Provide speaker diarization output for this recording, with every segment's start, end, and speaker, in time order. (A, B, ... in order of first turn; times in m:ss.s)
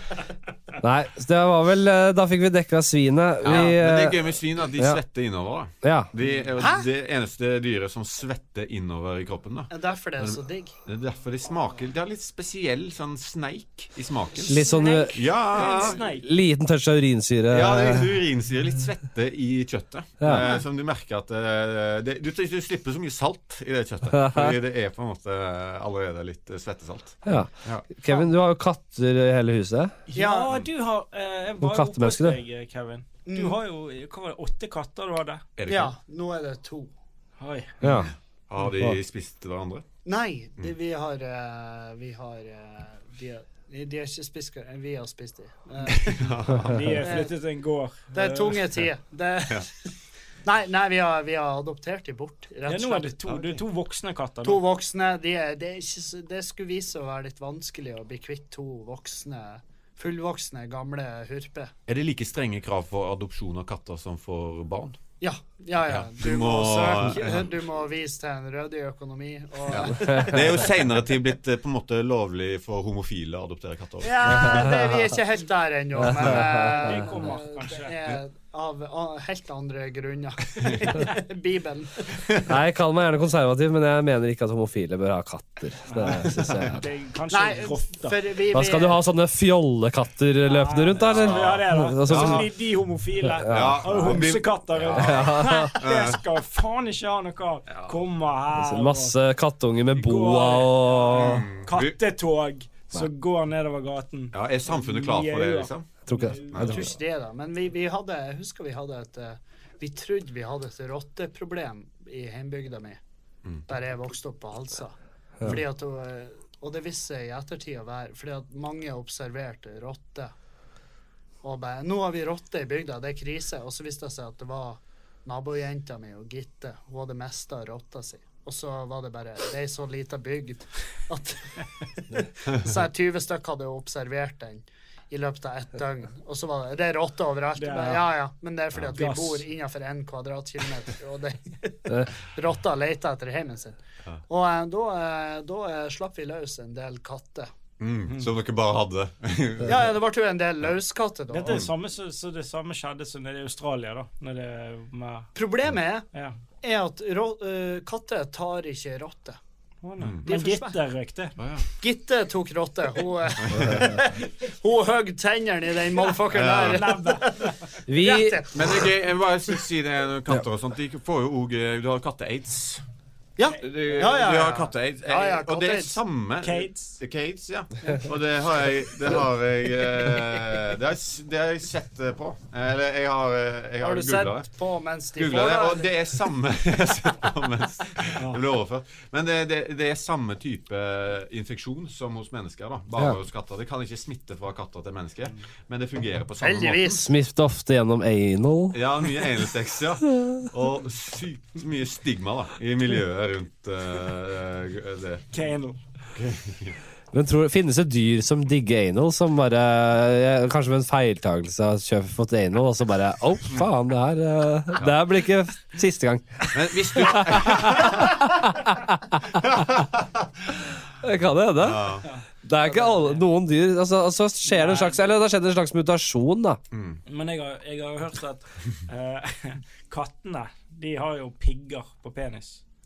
0:00.8-0:05.0 A
0:03.4-0:16.0 B
0:05.8-0:06.1 A
0:06.6-0:06.9 C
0:09.7-0:10.7 C
0:14.5-0:15.2 A
0:14.5-0:16.3 D
0:14.6-0:15.6 C
0:16.0-0:18.2 A
0:17.5-0:27.8 B
0:20.2-0:20.5 A
0:20.3-0:20.6 C
0:24.1-0:24.6 A
0:27.2-0:29.9 A
0:30.1-0:35.4 D
0:30.1-0:30.6 C
0:31.6-0:32.4 A
0:33.2-0:33.6 C
0:35.6-0:35.9 B
0:35.7-0:36.9 C
0:37.4-0:37.7 D
0:37.8-0:38.1 A
0:37.8-0:39.8 B
0:40.0-0:46.2 C
0:45.8-0:47.1 B
0:46.6-0:48.6 D
0:47.0-0:47.3 C
0:48.1-0:49.7 C
0:50.4-0:53.5 C
0:52.6-0:54.6 D
0:54.4-1:01.7 C
1:01.9-1:05.0 B
1:05.2-1:10.6 C
1:05.9-1:07.5 B
1:09.7-1:14.7 B
1:14.0-1:22.1 C
1:14.5-1:15.0 A
1:16.0-1:16.9 A
1:16.5-1:18.0 D
1:20.6-1:21.0 B
1:22.4-1:26.8 A
1:25.9-1:28.2 D
1:26.5-1:26.8 B
1:27.3-1:29.0 C
1:28.5-1:32.5 A
1:30.4-1:39.1 D
1:31.0-1:32.4 B
1:33.2-1:34.2 A
1:33.5-1:36.2 B
1:34.9-1:35.8 A
1:37.7-1:38.0 B
1:38.5-1:41.5 A
1:39.9-1:46.9 D
1:41.1-1:41.9 B
1:44.3-1:45.9 B
1:46.1-1:46.6 A
1:46.5-1:46.8 B
1:46.6-1:53.0 C
1:53.7-2:00.3 C
2:01.4-2:27.5 C
2:17.6-2:18.1 D
2:18.9-2:19.4 D
2:27.8-2:29.9 B
2:29.6-2:31.6 C
2:31.3-2:35.3 D
2:35.3-2:36.0 C
2:36.6-2:39.4 C
2:39.8-2:41.4 D
2:40.0-2:40.2 B
2:40.2-2:40.8 C
2:41.4-2:41.6 B
2:41.8-2:48.9 C
2:43.4-2:44.0 B
2:46.3-2:47.0 B
2:46.4-2:47.6 D
2:47.9-2:48.5 A
2:48.5-2:52.8 B
2:53.4-2:56.0 C
2:53.6-3:04.5 B
2:56.4-2:57.0 D
3:03.8-3:05.9 C
3:05.2-3:17.0 B
3:16.4-3:17.0 C
3:16.9-3:18.8 A
3:18.7-3:25.2 B
3:25.3-3:25.8 D
3:26.1-3:26.8 B
3:27.1-3:39.6 A
3:36.5-3:38.4 B
3:39.3-3:40.3 B
3:41.0-3:46.6 A
3:41.6-3:42.0 B
3:42.8-3:43.2 D
3:44.5-3:45.0 D
3:46.7-3:47.0 B
3:47.1-3:52.6 D